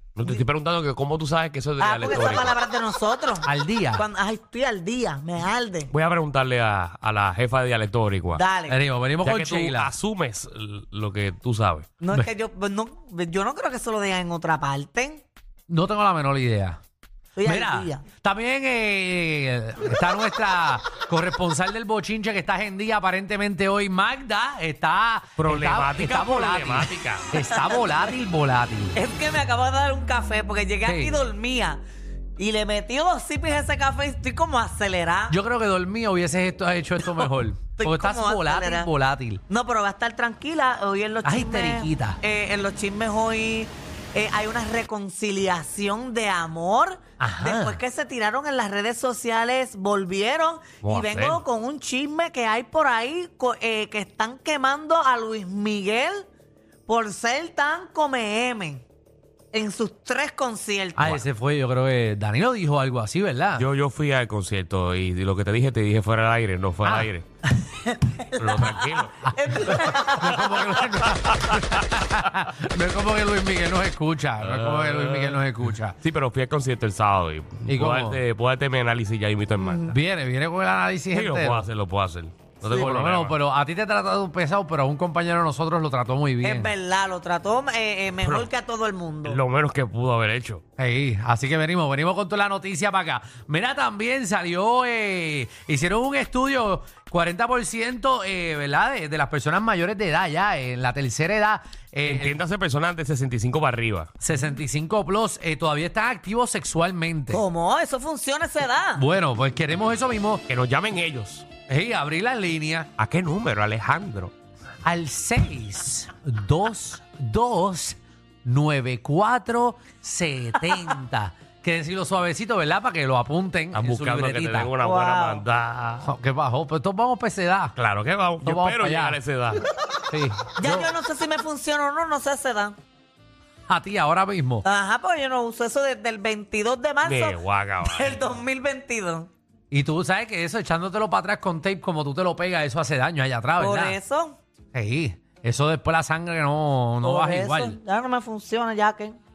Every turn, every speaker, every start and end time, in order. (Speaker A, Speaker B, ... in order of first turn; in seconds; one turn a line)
Speaker A: 0.1-2.5
Speaker B: 1.8-5.9
Speaker C: 3.4-4.1
Speaker A: 5.9-8.4
Speaker B: 8.3-8.8
Speaker C: 8.7-9.9
Speaker A: 9.2-11.9
Speaker B: 12.0-15.2
Speaker C: 15.7-16.8
Speaker B: 17.4-18.0
Speaker C: 17.4-28.9
Speaker A: 25.4-27.3
Speaker B: 27.6-27.8
Speaker B: 28.9-31.8
Speaker C: 30.8-31.2
Speaker B: 32.4-35.4
Speaker C: 35.3-39.4
Speaker B: 37.8-38.9
Speaker B: 39.5-56.3
Speaker C: 41.2-42.2
Speaker C: 47.2-47.8
Speaker A: 50.8-51.4
Speaker B: 56.9-58.8
Speaker B: 59.5-61.2
Speaker C: 61.0-63.6
Speaker A: 63.6-67.2
Speaker B: 67.8-68.7
Speaker A: 68.4-69.3
Speaker C: 69.2-76.0
Speaker B: 69.3-70.7
Speaker A: 71.3-71.8
Speaker A: 74.4-75.5
Speaker A: 76.0-80.0
Speaker C: 77.7-78.2
Speaker C: 79.9-81.7
Speaker A: 81.1-83.3
Speaker C: 82.6-86.7
Speaker B: 86.4-89.4
Speaker A: 88.2-88.5
Speaker A: 89.2-90.6
Speaker C: 90.8-102.3
Speaker A: 102.0-104.1
Speaker C: 104.2-107.4
Speaker B: 107.3-109.0
Speaker C: 109.0-110.4
Speaker A: 110.5-111.5
Speaker C: 111.7-112.9
Speaker A: 113.0-114.3
Speaker C: 114.8-124.7
Speaker A: 123.7-126.1
Speaker B: 124.8-125.4
Speaker C: 126.0-127.7
Speaker A: 127.8-129.7
Speaker C: 128.4-129.2
Speaker C: 130.1-130.9
Speaker B: 130.6-132.8
Speaker C: 133.7-134.6
Speaker B: 134.6-137.4
Speaker A: 137.0-138.4
Speaker B: 137.9-139.3
Speaker C: 139.7-144.0
Speaker B: 143.6-144.4
Speaker C: 144.7-147.8
Speaker B: 147.0-149.2